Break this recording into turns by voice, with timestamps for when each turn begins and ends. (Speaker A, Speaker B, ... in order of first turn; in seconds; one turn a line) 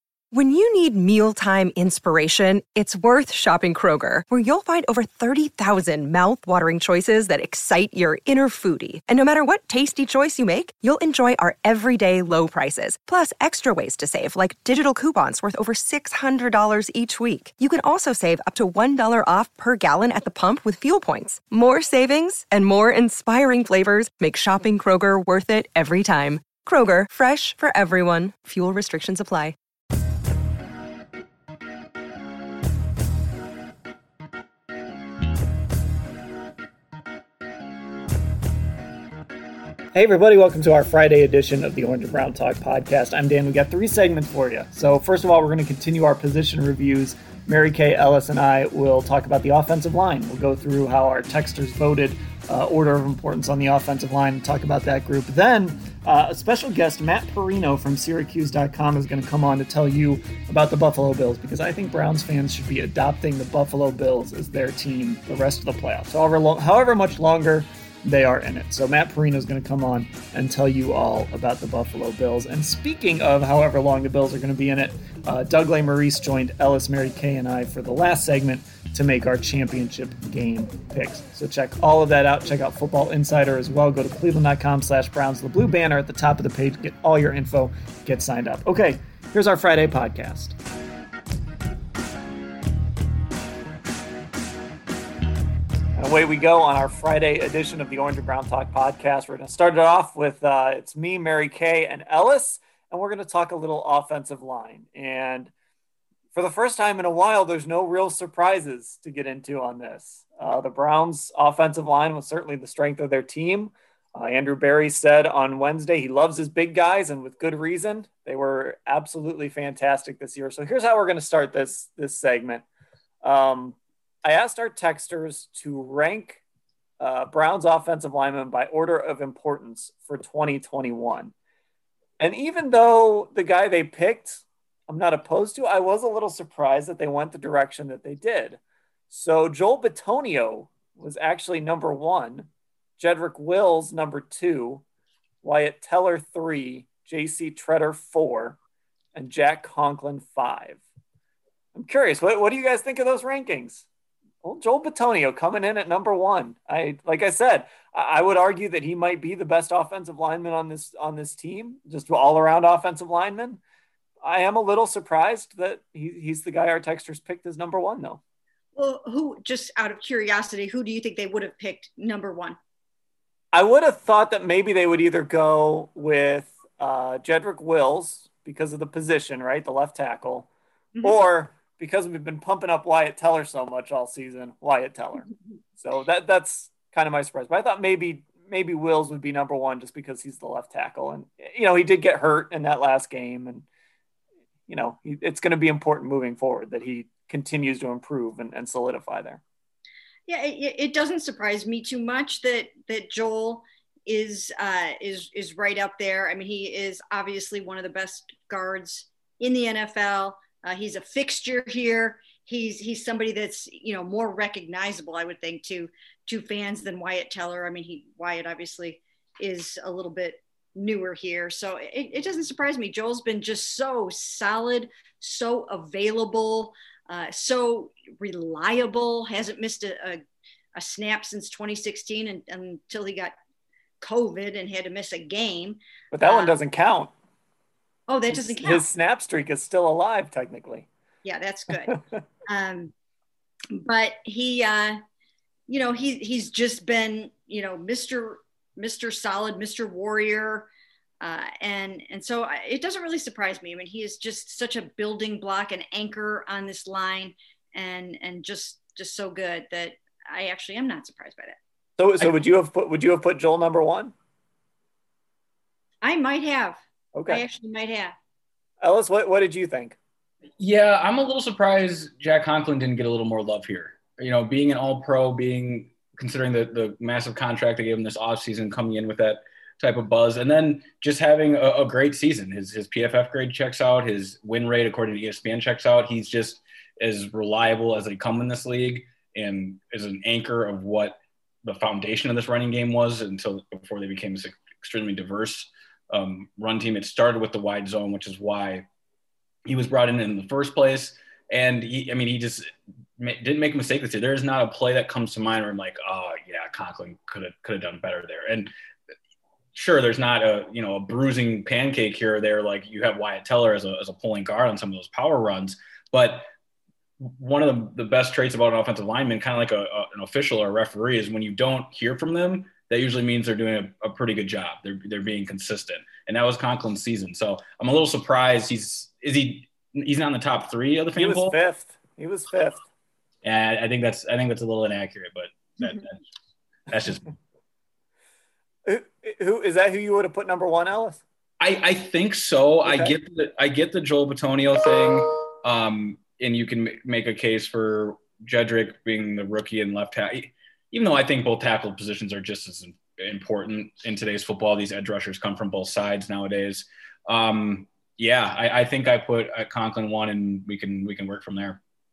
Speaker A: 0.3-29.6
Speaker B: 39.9-90.6
Speaker B: 96.0-105.5
Speaker B: 106.3-122.7
Speaker B: 123.2-126.4
Speaker B: 127.0-131.3
Speaker B: 132.2-144.8
Speaker B: 145.4-148.6
Speaker B: 149.2-150.8
Speaker B: 151.8-153.9
Speaker B: 154.4-163.6
Speaker B: 164.2-168.2
Speaker C: 168.8-172.6
Speaker B: 173.5-180.5
Speaker B: 181.0-185.3
Speaker B: 185.8-193.7
Speaker B: 194.7-199.4
Speaker C: 200.3-230.2
Speaker C: 230.8-233.4
Speaker C: 234.0-236.6
Speaker B: 236.1-237.1
Speaker C: 238.1-238.9
Speaker B: 238.3-240.9
Speaker C: 241.2-242.9
Speaker B: 241.9-242.2
Speaker C: 243.7-245.0
Speaker C: 245.7-250.7
Speaker C: 251.2-261.6
Speaker B: 262.0-264.1
Speaker C: 266.0-268.1
Speaker B: 267.1-267.4
Speaker B: 268.8-270.0
Speaker D: 270.6-298.9
Speaker D: 299.7-308.7
Speaker D: 309.7-316.5
Speaker D: 317.2-331.6
Speaker B: 331.1-332.8
Speaker D: 333.4-336.1
Speaker D: 336.9-337.3
Speaker B: 338.9-341.2
Speaker D: 341.6-361.8
Speaker B: 342.8-343.1